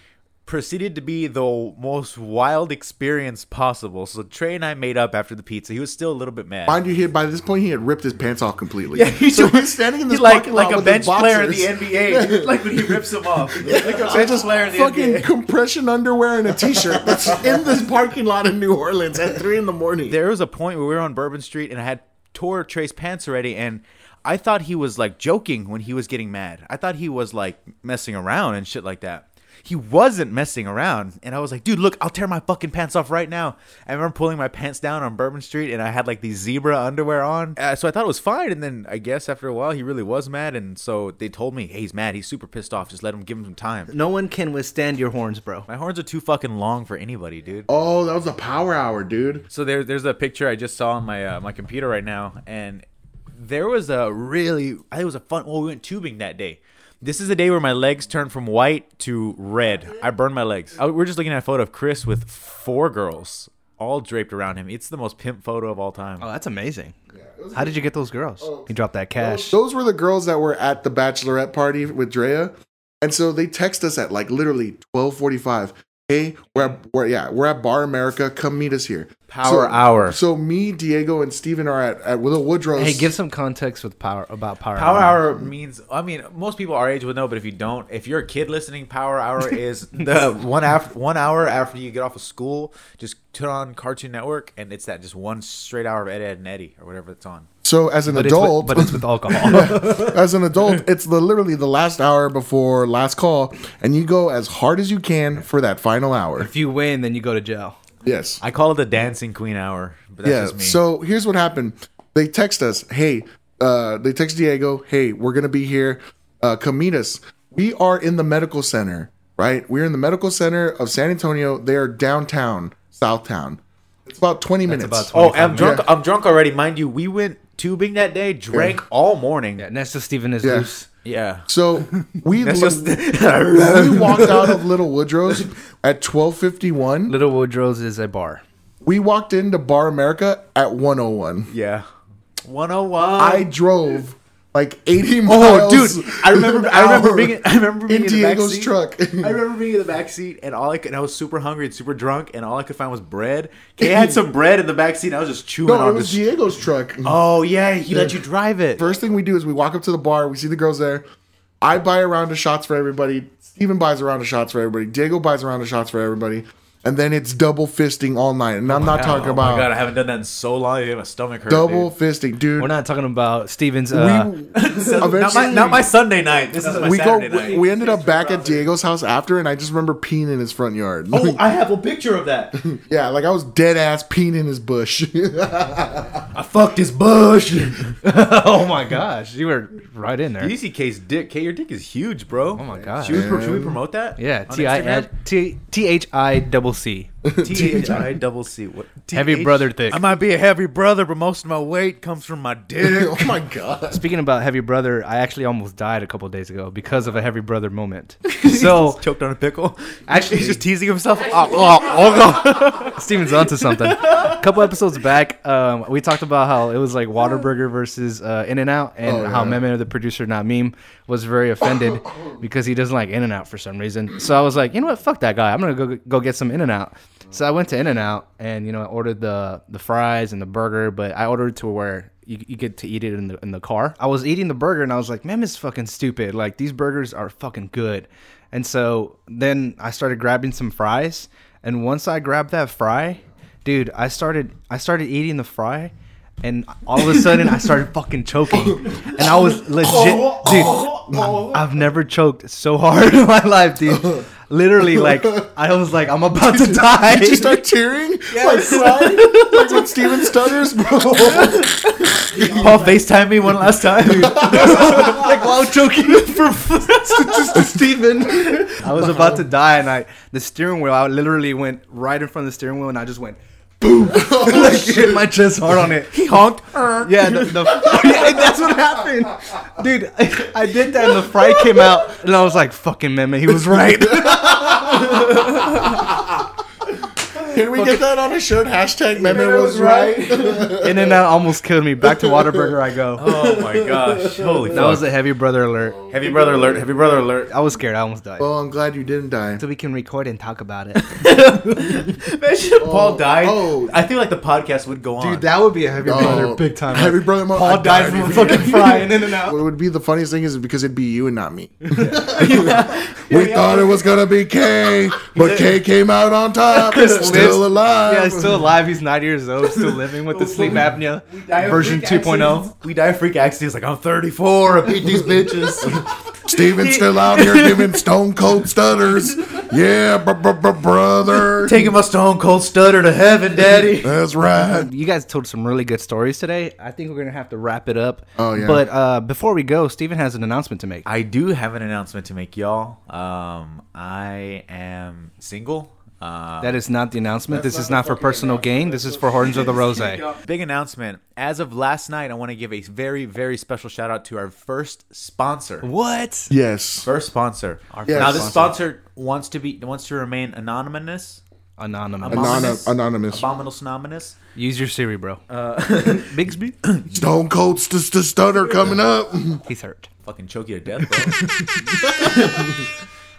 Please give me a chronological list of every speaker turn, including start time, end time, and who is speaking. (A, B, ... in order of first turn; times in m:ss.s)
0:00.4-0:06.8 A
0:06.7-0:20.2 B
0:08.9-0:15.3 A
0:20.1-0:43.9 A
0:43.9-0:45.7 C
0:45.7-0:47.7 A
0:47.7-0:49.4 B
0:49.5-0:52.8 A
0:53.4-1:06.2 A
1:06.2-1:06.9 C
1:07.1-1:07.8 B
1:07.5-1:09.6 C
1:08.4-1:23.1 B
1:19.3-1:20.2 A
1:22.8-1:25.2 C
1:24.8-1:37.5 A
1:37.6-1:46.5 B
1:38.1-1:40.2 C
1:46.4-1:47.8 C
1:48.0-1:48.4 B
1:48.4-1:50.8 A
1:50.2-2:05.8 B
2:04.7-2:05.8 C
2:05.1-2:09.6 A
2:08.5-2:08.8 B
2:09.6-2:10.9 C
2:10.4-2:10.7 B
2:11.0-2:11.5 A
2:11.5-2:13.0 B
2:12.4-2:14.6 A
2:13.5-2:17.1 B
2:17.1-2:18.4 C
2:18.8-2:21.5 B
2:21.5-2:21.8 A
2:22.4-2:23.5 A
2:23.2-2:29.4 B
2:25.2-2:36.2 A
2:33.8-2:34.2 B
2:35.6-2:37.2 B
2:37.0-2:38.8 A
2:37.9-2:38.2 B
2:38.8-2:41.0 B
2:41.6-2:49.7 B
2:48.7-2:51.9 A
2:51.5-2:52.7 B
2:52.6-2:55.8 C
2:53.9-2:55.9 B
2:54.5-2:58.3 A
2:56.6-2:57.0 C
2:56.7-3:01.4 B
2:57.5-2:58.5 C
3:01.1-3:02.6 A
3:02.6-3:06.2 B
3:06.3-3:08.0 A
3:08.0-3:10.5 C
3:10.4-3:15.1 A
3:12.6-3:13.3 C
3:13.0-3:13.8 B
3:14.2-3:17.1 C
3:17.2-3:18.1 B
3:17.4-3:23.4 A
3:19.1-3:20.0 C
3:22.8-3:24.0 B
3:23.9-3:29.0 C
3:28.3-3:32.8 A
3:30.1-3:30.6 C
3:31.9-4:05.9 C
3:39.0-3:39.6 B
4:06.4-4:17.6 C
4:07.1-4:07.5 A
4:09.2-4:11.6 A
4:11.1-4:11.4 B
4:13.9-4:14.2 B
4:14.9-4:15.4 B
4:16.5-4:21.7 B
4:18.3-4:20.3 C
4:21.2-4:22.9 C
4:21.2-4:27.7 A
4:22.2-4:22.7 B
4:24.0-4:36.1 C
4:24.2-4:25.2 B
4:34.1-4:35.3 B
4:36.1-4:38.8 A
4:37.0-4:46.0 C
4:41.0-4:41.9 A
4:43.7-4:46.0 A
4:47.4-4:51.1 B
4:49.1-4:50.8 A
4:50.7-4:53.3 C
4:52.0-4:52.7 B
4:53.2-4:55.1 A
4:53.3-4:54.9 B
4:54.7-4:56.0 C
4:56.1-4:56.8 B
4:56.1-4:57.5 A
4:57.5-4:58.5 C
4:58.4-4:59.6 B
4:59.6-5:02.0 C
5:01.0-5:06.5 A
5:02.8-5:03.9 B
5:05.2-5:09.6 C
5:06.0-5:18.7 B
5:07.6-5:09.1 A
5:11.9-5:14.1 A
5:11.9-5:12.6 C
5:15.3-5:15.8 A
5:16.8-5:17.6 A
5:17.1-5:22.7 C
5:19.7-5:28.0 A
5:25.0-5:31.9 B
5:31.4-5:34.2 A
5:34.0-5:34.9 B
5:34.6-5:41.0 C
5:38.4-5:38.9 B
5:41.0-5:46.8 A
5:46.6-5:50.2 C
5:47.5-5:49.8 B
5:49.5-5:55.9 A
5:55.8-5:56.5 C
5:56.5-5:57.1 B
5:57.0-6:01.4 A
5:58.0-5:58.7 C
5:58.0-5:58.6 B
6:01.8-6:02.8 C
6:02.2-6:04.4 A
6:02.3-6:03.4 B
6:04.6-6:05.4 C
6:05.5-6:07.1 A
6:06.0-6:06.7 C
6:07.1-6:09.6 B
6:09.7-6:10.1 C
6:10.2-6:12.7 A
6:12.2-6:12.5 C